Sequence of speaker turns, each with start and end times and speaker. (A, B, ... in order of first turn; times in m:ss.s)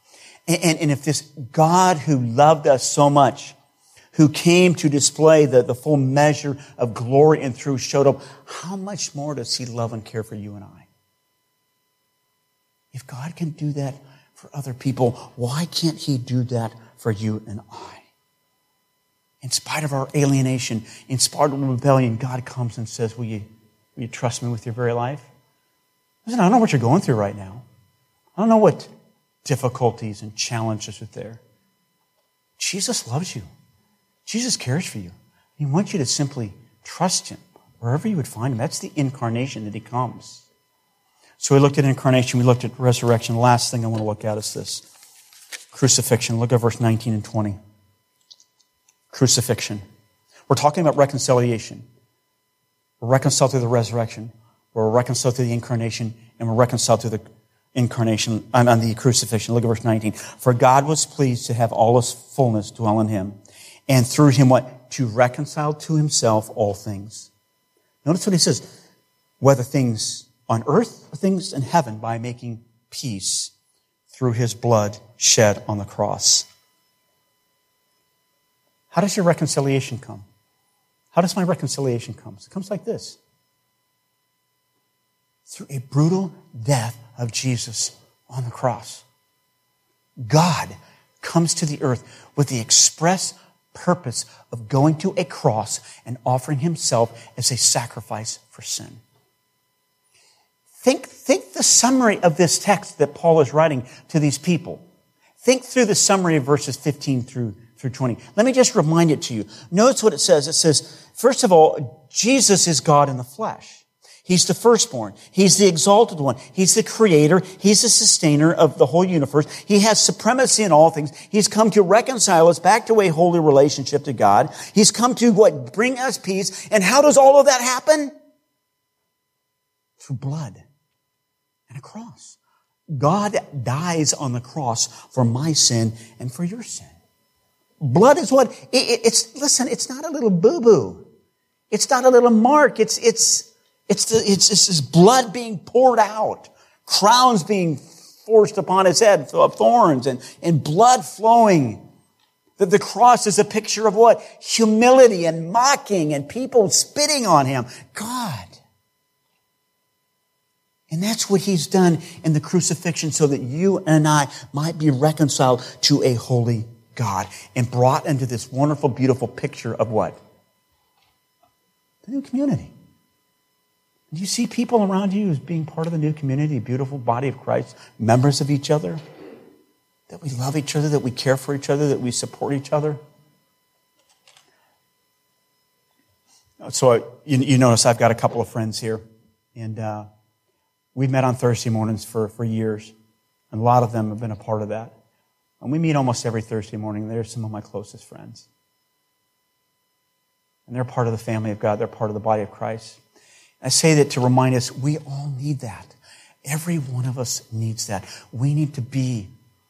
0:00.5-0:03.6 A
0:04.2-0:10.9 A
0:12.9-0:18.1 A
0:19.4-0:25.3 A
0:26.3-0:27.6 A
0:28.4-0:28.9 A
0:29.4-0:31.4 A
0:32.6-0:33.5 A
0:34.3-0:40.5 A
0:41.4-0:44.9 A
0:45.7-0:47.6 A
0:49.1-0:49.8 A
0:50.5-0:51.8 A
0:53.0-0:57.2 A
0:57.8-1:03.4 A
1:03.9-1:07.3 A
1:08.0-1:08.7 A
1:09.4-1:13.5 A
1:14.1-1:16.5 A
1:18.9-1:20.2 A
1:21.1-1:23.2 A
1:25.5-1:29.0 A
1:30.2-1:39.0 A
1:40.8-1:44.8 A
1:45.4-2:08.1 A
2:10.0-2:10.6 A
2:11.7-2:12.4 A
2:12.9-2:16.9 A
2:17.8-2:21.0 A
2:21.7-2:31.8 A
2:32.6-2:38.6 A
2:40.9-2:50.2 A
2:52.1-2:52.7 A
2:54.1-2:59.0 A
3:00.1-3:03.0 A
3:06.6-3:09.0 A
3:09.6-3:10.1 A
3:11.0-3:12.9 A
3:13.5-3:15.0 A
3:15.6-3:18.5 A
3:20.7-3:23.0 A
3:23.6-3:29.3 A